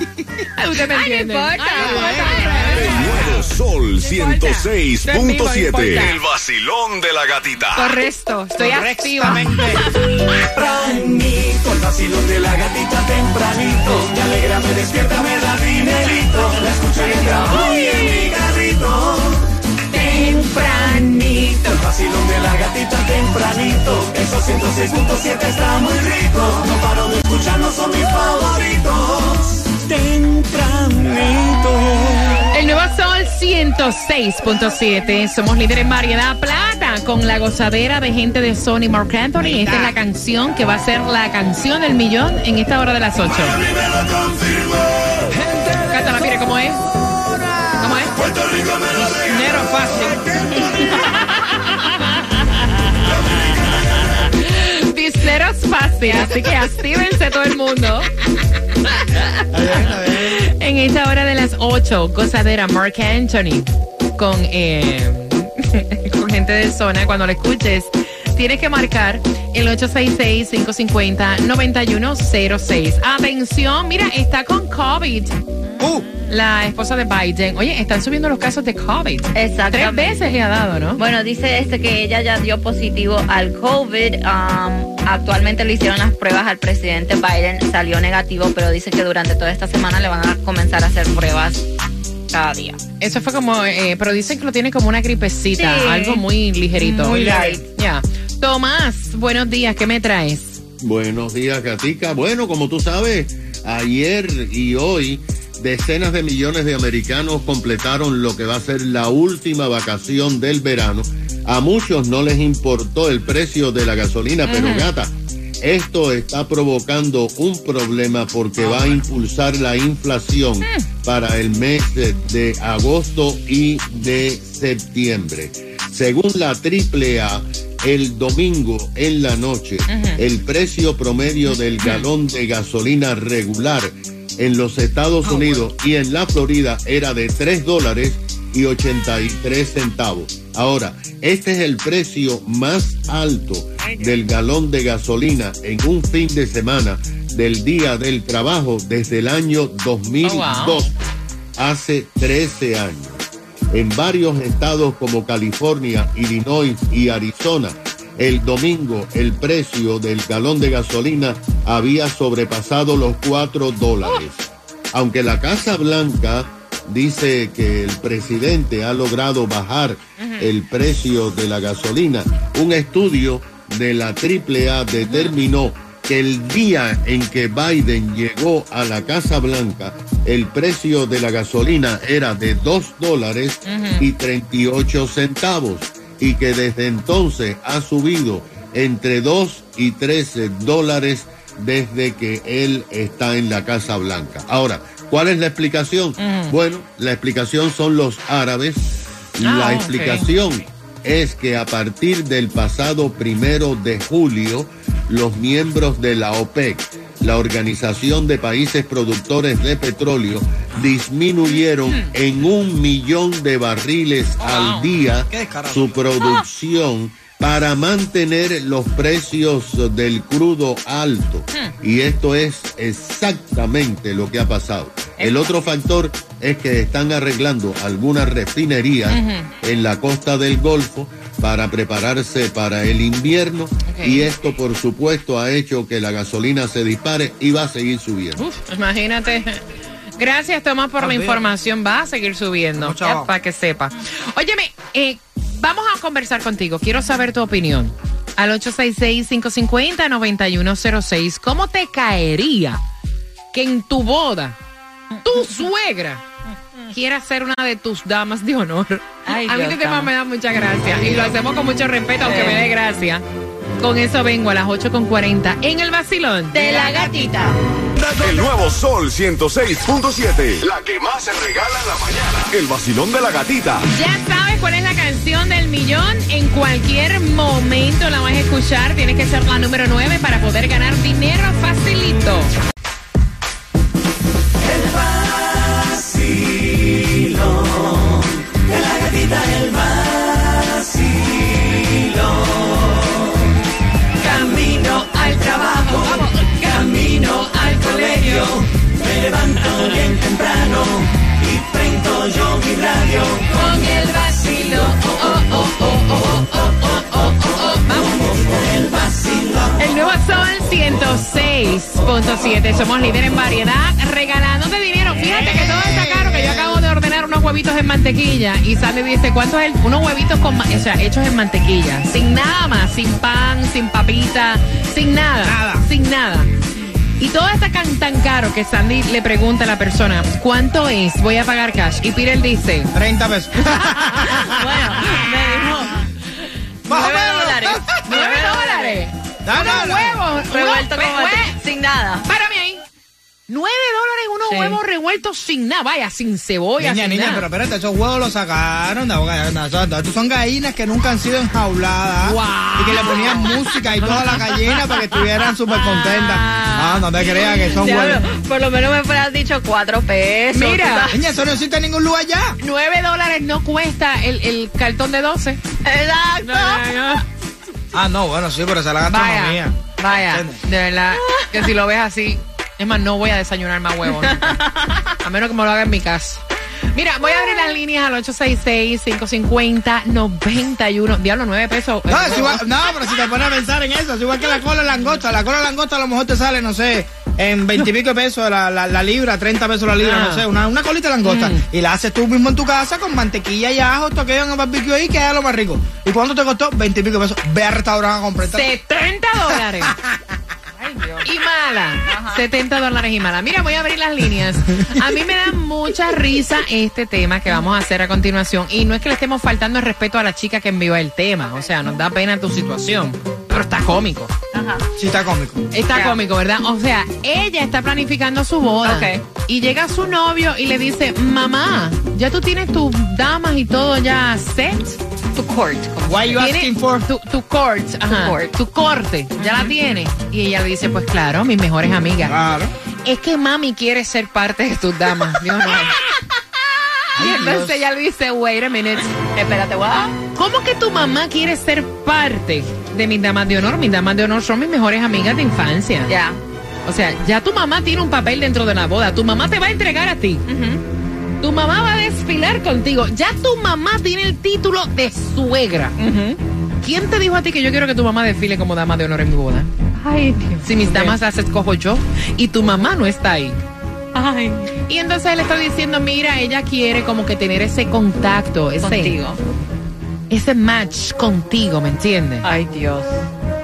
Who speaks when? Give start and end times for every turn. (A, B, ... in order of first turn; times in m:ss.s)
0:00.6-0:06.2 A
0:00.9-0:02.7 B
0:01.8-0:03.3 C
0:02.7-0:08.0 D
0:07.8-0:09.5 A
0:08.6-0:09.8 C
0:10.5-0:32.4 E
0:17.4-0:18.3 A
0:20.0-0:21.0 A
0:32.5-0:43.6 A
0:39.4-0:40.0 C
0:43.3-0:45.9 E
0:45.9-0:46.8 A
0:47.3-0:48.2 C
0:47.8-0:48.2 A
0:48.2-0:50.2 E
0:49.0-0:50.9 C
0:51.4-0:51.8 A
0:54.4-0:58.1 A
0:56.0-0:56.4 B
0:58.9-1:15.3 A
0:59.5-1:00.4 C
1:15.8-1:16.1 C
1:16.3-1:21.0 A
1:19.4-1:20.2 B
1:21.0-1:31.7 B
1:32.3-1:32.8 B
1:33.0-1:40.6 A
1:35.6-1:36.2 B
1:36.8-1:37.6 B
1:37.0-1:37.6 C
1:40.8-2:30.9 F
1:54.5-1:54.9 A
1:58.6-1:59.0 A
2:09.9-2:10.2 A
2:11.8-2:12.1 A
2:15.2-2:15.7 A
2:30.2-2:30.9 A
2:31.6-3:58.4 F
2:50.2-2:50.5 A
2:55.1-2:55.3 A
3:03.7-3:04.0 A
3:16.2-3:16.6 A
3:19.4-3:20.3 A
3:31.9-3:32.1 A
3:34.4-3:34.9 A
3:35.3-3:36.0 C
3:45.2-3:45.6 A
3:49.1-3:49.5 A
3:53.9-3:54.3 A
3:58.4-3:59.6 A
4:00.2-4:12.8 A
4:01.0-4:01.4 C
4:02.8-4:03.3 C
4:13.5-4:14.6 A
4:15.2-4:16.2 A
4:16.9-4:23.2 A
4:19.3-4:20.1 B
4:22.2-4:22.6 B
4:23.8-4:27.3 A
4:26.5-4:27.6 B
4:28.0-4:33.9 D
4:33.9-4:42.5 A
4:44.6-4:48.0 E
4:48.7-4:52.7 E
4:54.3-5:03.5 E
4:55.1-4:56.6 A
4:57.7-4:58.5 A
5:03.5-5:08.2 A
5:08.4-5:09.6 E
5:09.8-5:26.5 A
5:15.2-5:16.8 C
5:25.4-5:25.8 C
5:27.2-5:32.9 A
5:33.0-5:35.6 C
5:34.2-5:36.0 B
5:36.9-5:38.2 C
5:36.9-5:39.0 B
5:38.1-5:41.6 A
5:39.4-5:40.2 C
5:40.5-5:42.3 B
5:42.3-5:42.8 A
5:43.5-5:47.4 A
5:44.5-5:44.8 B
5:46.8-5:58.3 C
5:52.2-5:54.5 A
5:56.0-5:57.0 A
5:57.4-6:01.2 B
6:00.5-6:01.1 A
6:01.1-6:02.6 C
6:02.6-6:05.6 A
6:05.8-6:06.9 B
6:06.4-6:07.2 A
6:07.9-6:10.6 C
6:09.1-6:22.6 A
6:11.2-6:11.5 B
6:14.2-6:15.0 B
6:17.3-6:17.7 B
6:22.1-6:38.7 C
6:30.0-6:30.5 A
6:31.2-6:31.6 A
6:38.4-6:40.0 A
6:40.8-6:41.3 B
6:41.2-6:54.3 A
6:42.0-6:42.4 B
6:54.5-6:54.8 B
6:55.0-6:55.6 C
6:55.7-7:05.0 A
6:58.8-6:59.2 B
7:05.4-7:06.4 B
7:06.1-7:07.1 C
7:06.4-7:12.4 A
7:08.1-7:08.5 B
7:09.4-7:09.7 B
7:12.3-7:12.7 C
7:13.0-7:16.0 A
7:17.1-7:17.8 C
7:17.1-7:19.1 A
7:19.3-7:20.2 B
7:20.3-7:26.1 A
7:26.1-7:26.4 B
7:26.9-7:30.4 A
7:30.5-7:30.8 B
7:31.4-7:36.0 A
7:36.0-7:36.4 B
7:36.8-7:39.7 A
7:40.0-7:41.2 B
7:40.6-7:43.6 A
7:44.1-7:44.7 B
7:44.9-7:49.2 A
7:48.8-7:49.4 B
7:50.3-7:52.5 A
7:52.4-7:53.1 B